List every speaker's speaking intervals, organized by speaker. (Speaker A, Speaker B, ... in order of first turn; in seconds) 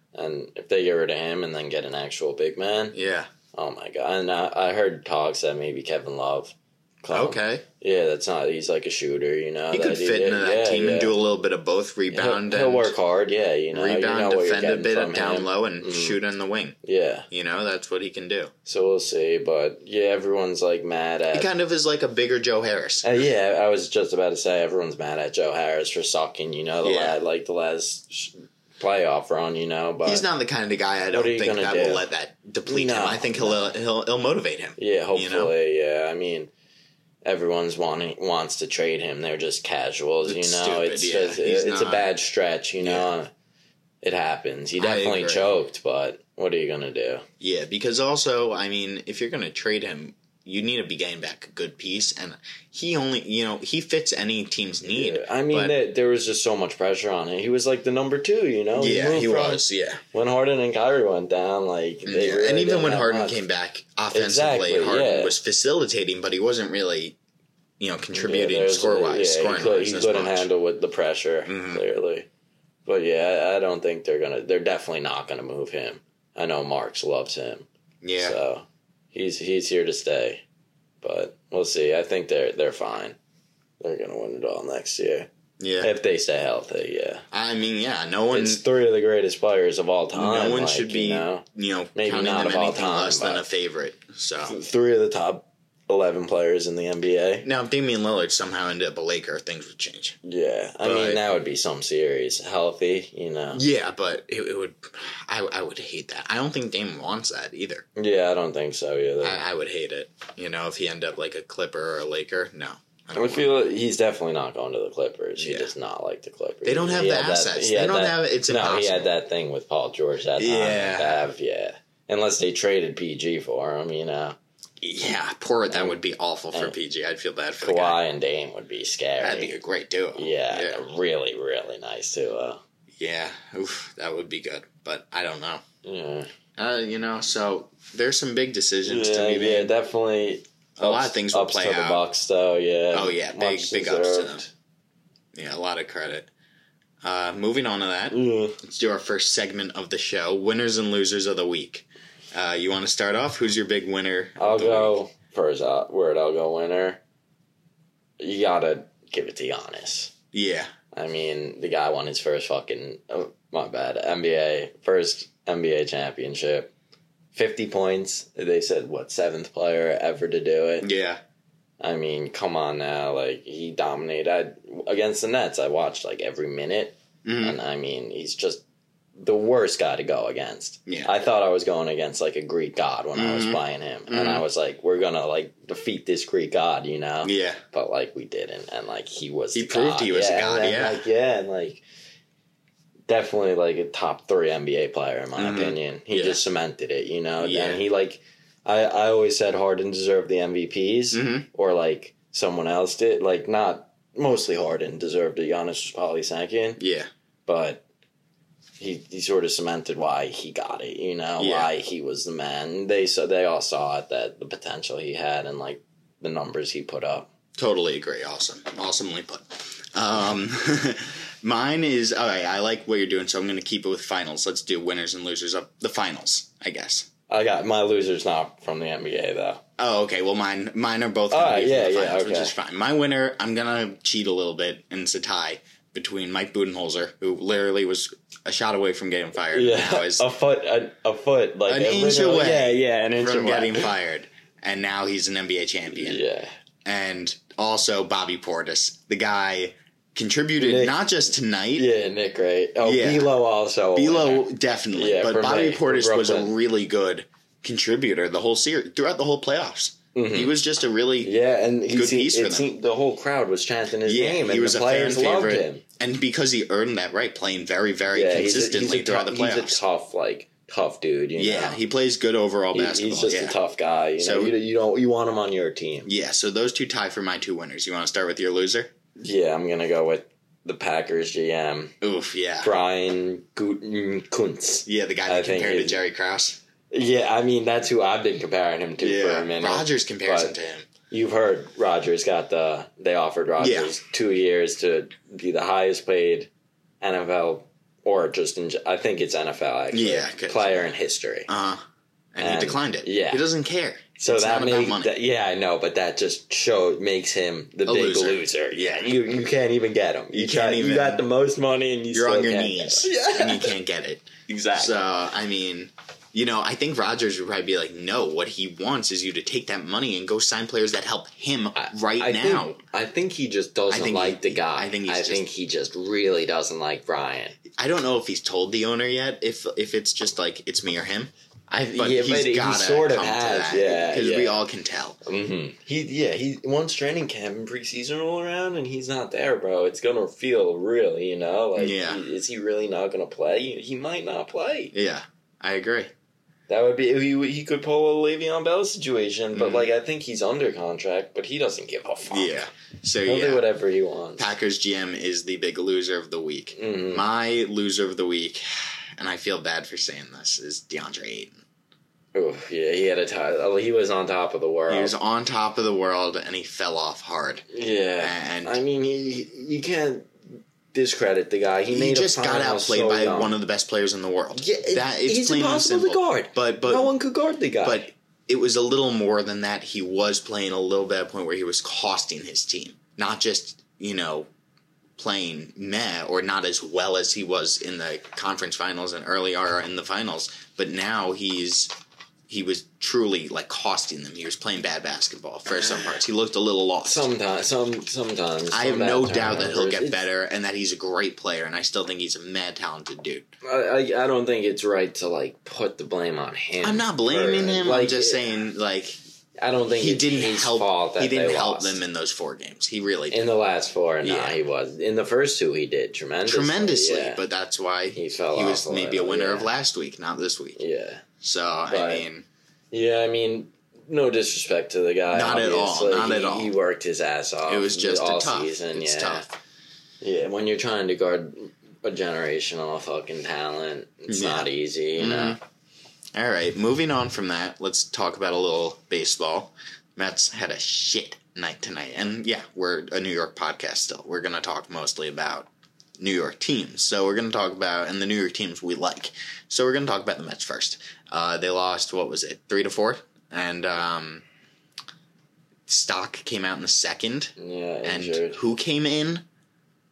Speaker A: 0.1-3.0, 3.5-11.2, 12.1-16.2, 16.8-17.3, 18.7-21.5, 23.0-30.2, 31.1-32.0, 32.7-33.7, 34.8-36.5, 37.2-43.3, 44.0-47.2, 54.9-63.4, 64.1-65.3, 68.1-72.3, 72.8-77.7, 78.2-80.4, 81.0-83.2, 83.8-85.3, 85.8-87.2, 88.3-91.4, 92.0-93.5, 94.5-97.5, 100.2-103.6, 108.0-109.4, 113.1-124.4, 125.7-126.0, 127.6-129.5, 130.2-132.6, 135.8-136.3, 138.9-144.5, 148.1-148.6, 154.4-157.0, 158.2-160.1, 160.9-166.7, 167.3-170.9, 171.8-178.6, 179.2-191.8, 193.1-206.8, 207.5-207.8, 208.8-217.3, 227.3-229.6, 231.3-232.5, 239.5-243.9, 245.9-246.5, 250.6-250.9, 251.8-256.5, 260.1-260.6, 261.2-265.8, 268.1-271.8, 272.7-276.1, 279.2-281.9, 282.6-286.0, 286.9-290.5, 291.1-296.5, 297.0-301.5, 302.4-303.4, 304.2-313.8, 314.5-315.0, 321.8-327.6, 331.9-334.6, 335.2-344.9, 346.7-352.5, 353.2-354.5, 356.8-357.2, 362.3-365.1, 367.7-373.6, 374.6-378.1, 395.7-396.2, 397.0-400.2, 403.6-408.6, 409.6-412.0, 413.3-417.4, 418.1-419.7, 420.8-421.2, 421.9-422.2, 422.9-429.5, 430.2-435.6, 457.6-458.6
Speaker B: 2.9-3.3, 7.1-7.7, 9.7-12.9, 13.7-16.8, 17.3-18.5, 21.3-23.1, 26.8-27.2, 30.0-35.5, 40.2-42.1, 42.8-43.1, 44.8-45.5, 47.4-55.8, 58.8-60.0, 62.1-67.2, 67.8-70.5, 71.5-71.8, 78.0-78.4, 85.6-85.9, 87.3-88.6, 90.1-94.6, 97.4-100.2, 100.8-101.2, 103.5-107.8, 109.2-113.6, 115.4-115.7, 116.6-119.1, 120.4-121.3, 124.8-128.0, 129.2-130.8, 133.0-135.6, 136.6-139.7, 140.8-142.0, 142.9-144.4, 145.3-146.3, 147.0-154.9, 160.3-160.7, 170.8-171.2, 177.2-177.6, 183.2-184.4, 187.2-187.6, 189.6-191.1, 195.4-196.4, 197.4-197.8, 201.1-201.5, 206.8-207.1, 211.4-211.7, 217.6-227.1, 229.8-240.3, 241.7-246.2, 246.8-251.9, 252.8-253.3, 253.9-261.4, 261.9-262.7, 264.1-269.8, 271.4-273.6, 274.2-274.6, 276.1-278.9, 282.0-282.7, 284.9-286.6, 289.0-290.9, 293.6-293.9, 299.9-300.9, 301.5-305.1, 307.9-309.1, 310.3-311.2, 312.1-322.8, 323.9-325.4, 327.8-335.2, 341.8-342.2, 344.9-346.1, 349.5-349.9, 352.3-353.7, 354.4-358.7, 359.2-361.6, 364.9-367.7, 368.2-368.8, 371.9-377.1, 377.8-384.5, 385.2-391.9, 392.5-397.3, 398.7-403.5, 406.8-409.2, 409.9-413.5, 414.2-414.6, 416.5-420.8, 421.4-422.5, 425.3-426.7, 427.7-429.5, 434.3-435.6, 436.3-454.4, 455.9-457.5, 458.0-459.4